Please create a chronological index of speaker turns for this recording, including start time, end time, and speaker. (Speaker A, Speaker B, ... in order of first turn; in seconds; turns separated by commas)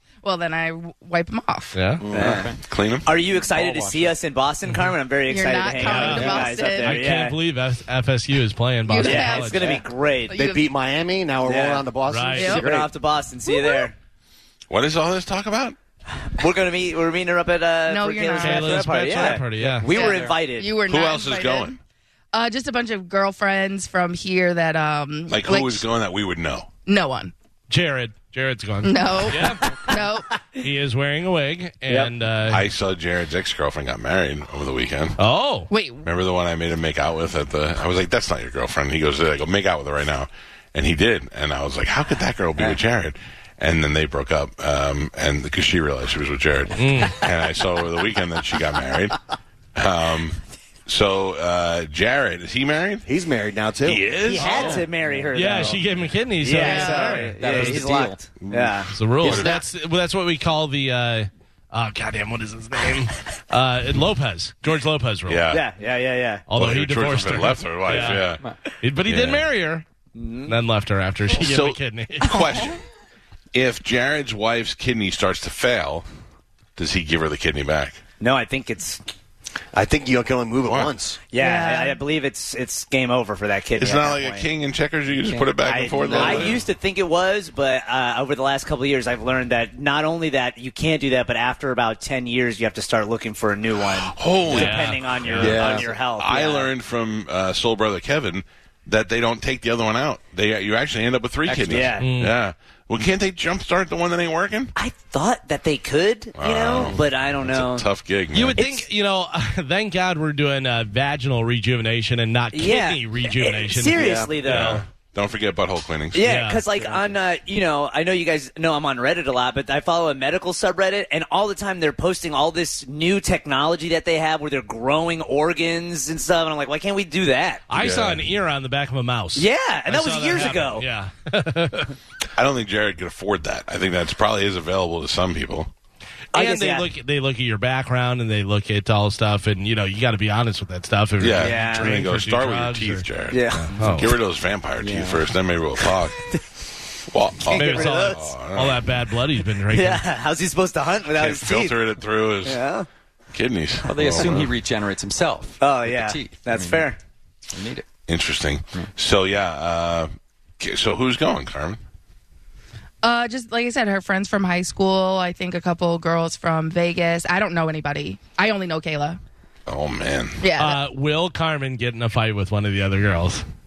Speaker A: 0.2-1.8, Speaker B: 1.7-2.0, Speaker C: 2.1-2.5, Speaker D: 2.1-2.6, Speaker E: 2.6-3.1, Speaker C: 3.0-7.4, Speaker D: 3.2-4.1, Speaker A: 5.3-7.0, Speaker B: 5.8-9.7, Speaker A: 8.9-10.7, Speaker C: 9.0-10.4, Speaker F: 10.3-12.9, Speaker C: 11.4-11.9, Speaker B: 12.1-12.6, Speaker A: 12.4-12.7, Speaker C: 12.4-13.9, Speaker A: 13.5-13.9, Speaker E: 14.7-15.8, Speaker C: 16.2-20.8, Speaker A: 17.9-19.2, Speaker B: 18.4-19.9, Speaker D: 19.3-20.4, Speaker A: 19.9-21.8, Speaker E: 20.9-21.8, Speaker A: 22.3-25.9, Speaker E: 25.3-26.7, Speaker A: 26.9-27.3, Speaker B: 27.7-29.8, Speaker A: 28.8-30.4, Speaker B: 30.6-32.6, Speaker E: 32.5-35.2, Speaker B: 35.2-35.7, Speaker A: 35.7-36.1, Speaker E: 36.0-49.2, Speaker B: 46.8-47.2, Speaker E: 49.8-53.1, Speaker F: 53.1-54.0, Speaker C: 54.0-55.9, Speaker D: 54.3-55.8, Speaker B: 55.3-57.7, Speaker C: 56.4-58.9, Speaker A: 56.6-57.3, Speaker D: 57.1-58.3, Speaker E: 58.4-59.5, Speaker B: 58.9-65.5, Speaker D: 59.3-59.5, Speaker E: 65.3-65.7, Speaker C: 65.5-66.5, Speaker B: 66.5-68.3, Speaker E: 66.5-68.4, Speaker D: 67.8-68.6, Speaker B: 68.8-69.8, Speaker E: 69.1-69.5, Speaker C: 70.2-70.5, Speaker B: 70.5-72.4, Speaker E: 71.3-72.8, Speaker A: 72.3-72.6, Speaker E: 73.5-76.0, Speaker E: 76.8-78.0, Speaker C: 78.2-79.0, Speaker F: 79.7-81.2, Speaker C: 81.3-84.5, Speaker A: 81.4-82.0, Speaker E: 83.8-86.6, Speaker C: 85.6-96.7, Speaker F: 86.0-86.5, Speaker E: 93.9-104.7, Speaker B: 94.5-95.6, Speaker F: 95.4-95.9, Speaker D: 101.5-102.0, Speaker C: 101.5-102.1, Speaker B: 102.0-102.3, Speaker C: 104.8-107.9, Speaker E: 106.4-108.7, Speaker B: 108.3-114.8, Speaker C: 108.6-108.8, Speaker C: 112.5-114.8, Speaker F: 113.9-114.3, Speaker E: 114.5-116.3, Speaker C: 116.1-127.7, Speaker B: 116.2-116.6, Speaker B: 127.7-131.9, Speaker E: 127.8-128.3, Speaker C: 129.4-130.8, Speaker E: 132.4-135.7, Speaker C: 136.3-136.9, Speaker B: 136.3-144.1, Speaker E: 141.2-146.2, Speaker C: 141.4-142.0, Speaker C: 143.3-143.7, Speaker D: 143.7-144.1, Speaker D: 144.8-145.3, Speaker C: 145.9-146.4, Speaker E: 147.1-148.9, Speaker C: 147.5-148.3, Speaker B: 147.5-150.0, Speaker C: 149.7-151.8, Speaker E: 151.1-152.6, Speaker C: 152.4-152.9, Speaker E: 153.3-154.5, Speaker D: 153.8-156.9, Speaker C: 155.6-157.0, Speaker D: 157.5-157.9, Speaker E: 158.1-161.8, Speaker A: 163.0-169.2, Speaker E: 169.7-170.4, Speaker A: 170.4-170.8, Speaker B: 170.6-173.4